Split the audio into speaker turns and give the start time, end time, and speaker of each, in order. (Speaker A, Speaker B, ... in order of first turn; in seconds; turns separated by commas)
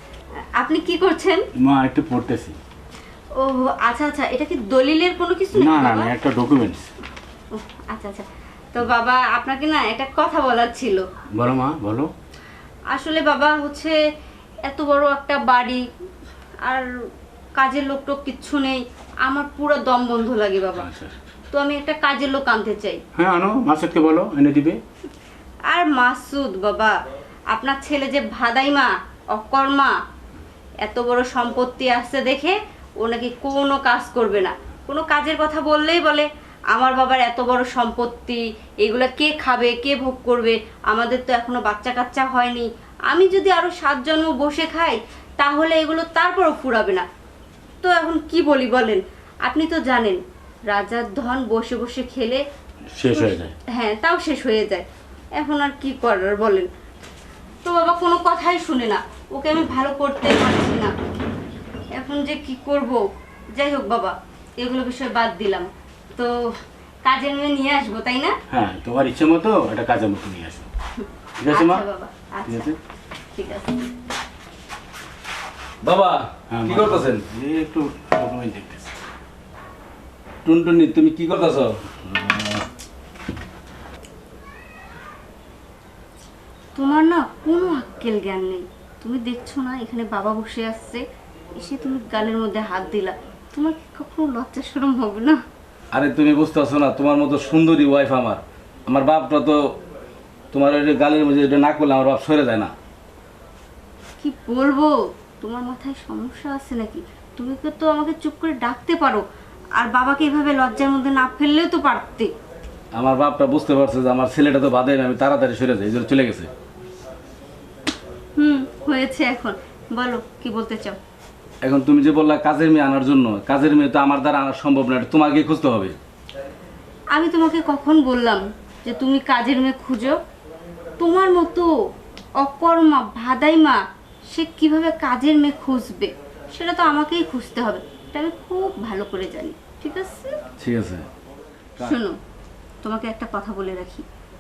Speaker A: 0.6-1.4, Speaker B: 1.6-2.6, Speaker A: 3.4-6.1, Speaker B: 5.5-6.9, Speaker A: 7.5-11.1, Speaker B: 11.3-12.1, Speaker A: 12.9-14.0, Speaker A: 14.7-15.8, Speaker A: 16.6-16.9, Speaker A: 17.6-20.9, Speaker B: 20.8-21.1, Speaker A: 21.5-23.0, Speaker B: 23.2-24.8, Speaker A: 25.7-26.9, Speaker A: 27.5-29.9, Speaker A: 30.8-47.0, Speaker A: 47.8-52.4, Speaker B: 53.0-53.5, Speaker A: 53.1-54.9, Speaker A: 55.4-56.7, Speaker A: 57.6-61.0, Speaker A: 62.0-68.3, Speaker B: 68.5-70.7, Speaker A: 71.0-72.7, Speaker B: 71.4-71.8, Speaker B: 72.5-72.8, Speaker A: 73.3-73.8, Speaker C: 75.8-77.2, Speaker B: 76.5-78.9, Speaker C: 80.5-81.8, Speaker B: 82.0-82.6, Speaker A: 86.8-91.0, Speaker A: 91.5-95.4, Speaker C: 95.9-99.8, Speaker C: 100.5-102.7, Speaker A: 104.2-109.2, Speaker A: 109.8-112.3, Speaker C: 112.9-116.5, Speaker A: 118.4-121.0, Speaker C: 121.6-126.0, Speaker A: 127.1-130.2, Speaker A: 131.0-131.7, Speaker A: 132.4-133.8, Speaker A: 134.3-140.4, Speaker C: 140.6-141.1, Speaker A: 141.8-142.2, Speaker A: 142.8-144.1